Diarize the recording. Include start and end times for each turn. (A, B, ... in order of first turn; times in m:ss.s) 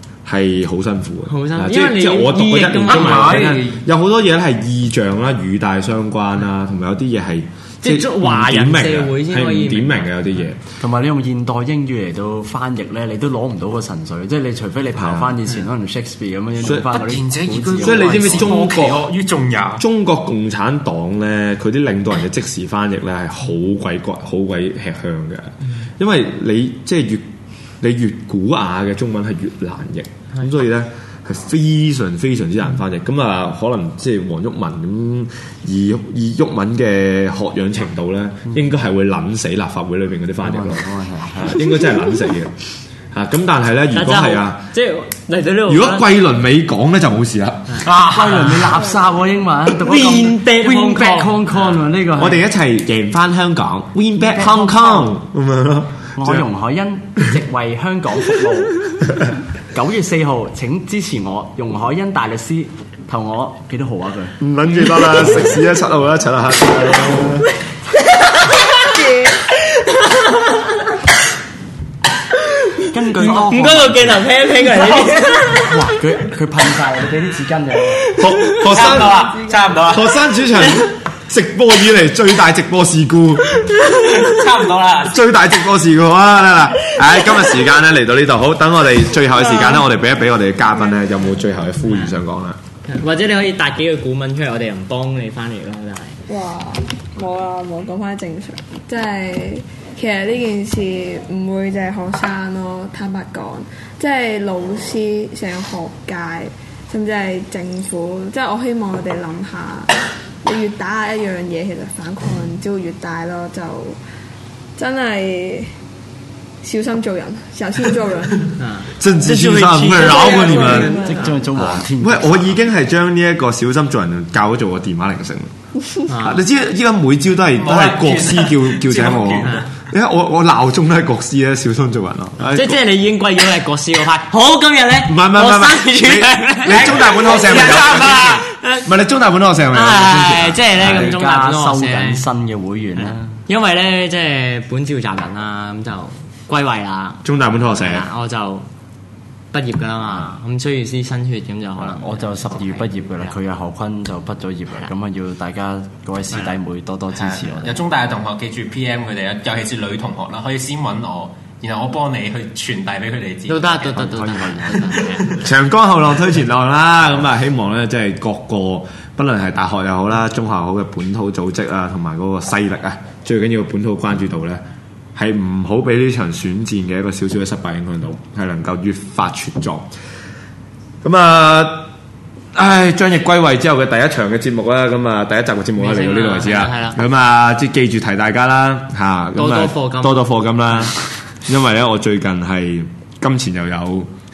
0:00.2-0:10.6 A
0:01.3-0:03.5 B
0:02.9-0:03.8 C
0:07.8-0:10.1 B
0:10.8-0:18.5 D
0:15.0-0:15.4 A
0:16.6-0:16.9 A
0:16.9-0:19.8 C
0:17.8-0:19.1 A
0:19.8-0:27.3 A
0:27.8-0:40.9 A
0:40.4-0:41.7 D
0:41.4-0:42.5 A
0:43.1-0:44.6 A
0:43.9-0:46.1 B
0:45.7-0:47.9 A
0:47.7-0:48.8 B
0:47.8-0:48.8 C
0:48.0-0:52.4 D
0:49.8-0:51.5 B
0:52.2-0:56.5 A
0:56.2-1:04.4 D
1:04.4-1:07.4 A
1:05.1-1:05.6 D
1:08.8-1:09.3 E
1:09.8-1:10.8 B
1:12.7-1:15.8 B
1:12.9-1:14.3 D
1:15.6-1:18.1 D
1:18.2-1:19.2 A
1:18.6-1:20.1 C
1:19.1-1:19.7 E
1:19.9-1:23.7 A
1:23.9-1:25.2 C
1:25.1-1:32.6 A
1:29.5-1:29.8 E
1:31.8-1:32.1 B
1:32.8-1:36.2 B
1:36.3-1:54.0 E
1:54.8-1:55.7 E
1:56.6-1:58.6 E
1:58.6-1:58.9 B
1:59.0-2:01.0 A
1:59.2-2:00.9 C
1:59.9-2:01.4 E
2:00.5-2:02.6 D
2:00.7-2:01.3 B
2:01.6-2:05.5 A
2:06.1-2:06.4 B
2:06.2-2:12.8 A
2:07.6-2:09.7 C
2:12.5-2:17.1 B
2:15.1-2:21.2 A
2:16.7-2:18.5 C
2:18.4-2:18.9 B
2:19.7-2:22.3 B
2:20.8-2:23.3 D
2:23.0-2:27.2 B
2:27.2-2:28.1 A
2:27.8-2:28.7 B
2:29.5-2:32.9 B
2:31.8-2:37.8 D
2:37.2-2:44.0 C
2:43.5-2:45.3 B
2:44.0-2:45.0 D
2:45.0-2:45.4 C
2:45.4-2:54.6 A
2:55.2-2:59.9 A
3:01.0-3:01.9 A
3:02.6-3:14.1 A
3:05.8-3:07.0 B
3:09.4-3:10.9 B